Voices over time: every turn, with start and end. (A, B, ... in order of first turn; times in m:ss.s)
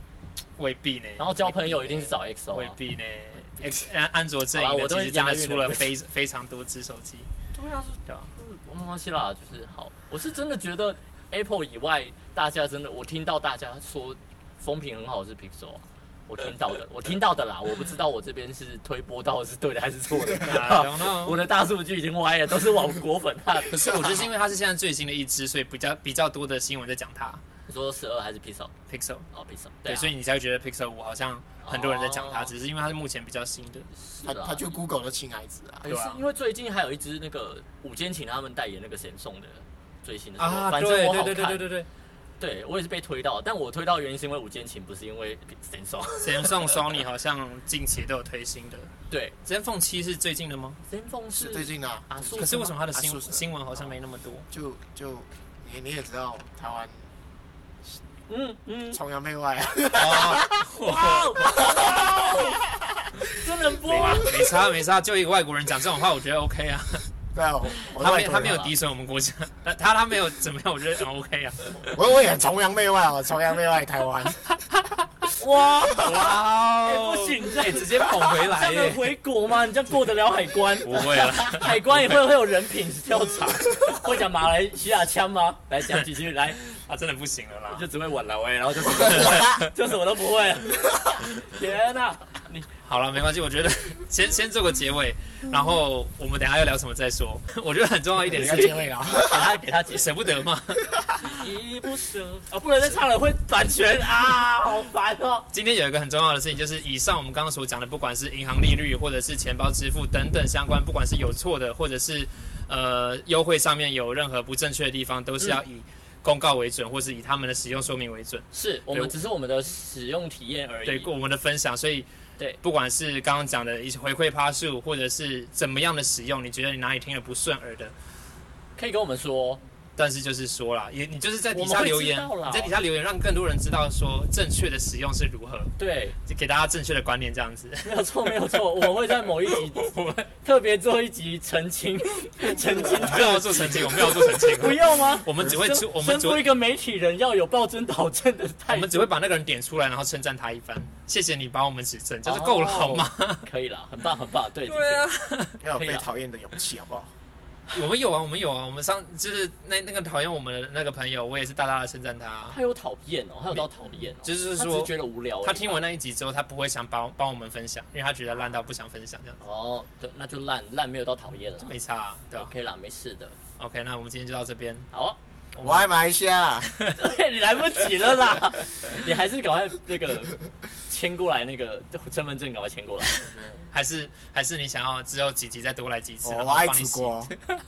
0:00.6-0:07.3 A
0:01.2-0:02.8 B
0:04.5-0:05.9 B
0:07.5-0:24.3 B
0:20.4-0:21.4 A
0:23.7-0:27.4 A
0:27.7-0:28.7 B
0:28.9-0:29.2 A
0:29.3-0:30.1 B
0:29.8-0:33.9 A
0:31.6-0:32.5 B
0:34.0-0:34.6 B
0:34.2-0:35.9 C
0:35.8-0:41.7 B
0:35.9-0:36.2 A
0:40.4-0:41.9 A
0:42.4-0:46.8 B
0:46.2-0:48.9 A
0:49.1-0:49.4 B
0:49.4-0:50.8 A
0:50.9-0:52.8 B
0:51.3-0:53.9 C
0:52.4-0:54.5 A
0:54.5-0:57.1 C
0:58.3-0:59.0 B
0:58.9-1:00.5 C
0:59.9-1:01.7 A
1:00.5-1:02.6 B
1:01.6-1:02.1 C
1:03.2-1:04.5 B
1:03.8-1:07.0 A
1:07.3-1:08.8 C
1:08.0-1:11.9 A
1:11.9-1:14.4 C
1:15.4-1:26.6 B
1:16.0-1:19.0 A
1:20.8-1:22.2 A
1:26.6-1:27.8 A
1:27.7-1:32.7 B
1:29.1-1:29.7 A
1:32.8-1:38.8 A
1:38.3-1:39.6 C
1:39.2-1:40.1 B
1:39.9-1:41.0 A
1:41.2-1:45.5 B
1:45.5-1:59.1 A
1:58.5-2:01.1 B
2:00.8-2:02.1 A
2:02.6-2:07.9 A
2:08.8-2:09.6 B
2:10.0-2:15.7 A
2:11.5-2:12.7 B
2:15.8-2:16.2 B
2:16.2-2:18.6 A
2:17.8-2:29.1 B
2:19.4-2:20.3 A
2:22.9-2:26.5 A
2:28.7-2:33.4 A
2:32.2-2:35.0 B
2:34.7-2:35.6 A
2:35.6-2:37.1 C
2:35.7-2:36.1 B
2:37.7-2:42.6 A
2:42.5-2:45.8 B
2:44.2-2:49.4 A
2:49.4-2:51.8 B
2:51.6-2:52.5 A
2:52.3-2:53.4 B
2:53.6-2:54.9 A
2:54.9-2:55.2 B
2:55.5-2:55.9 A
2:55.6-2:56.7 C
2:57.0-3:03.3 B
3:03.7-3:07.4 A
3:06.2-3:07.3 C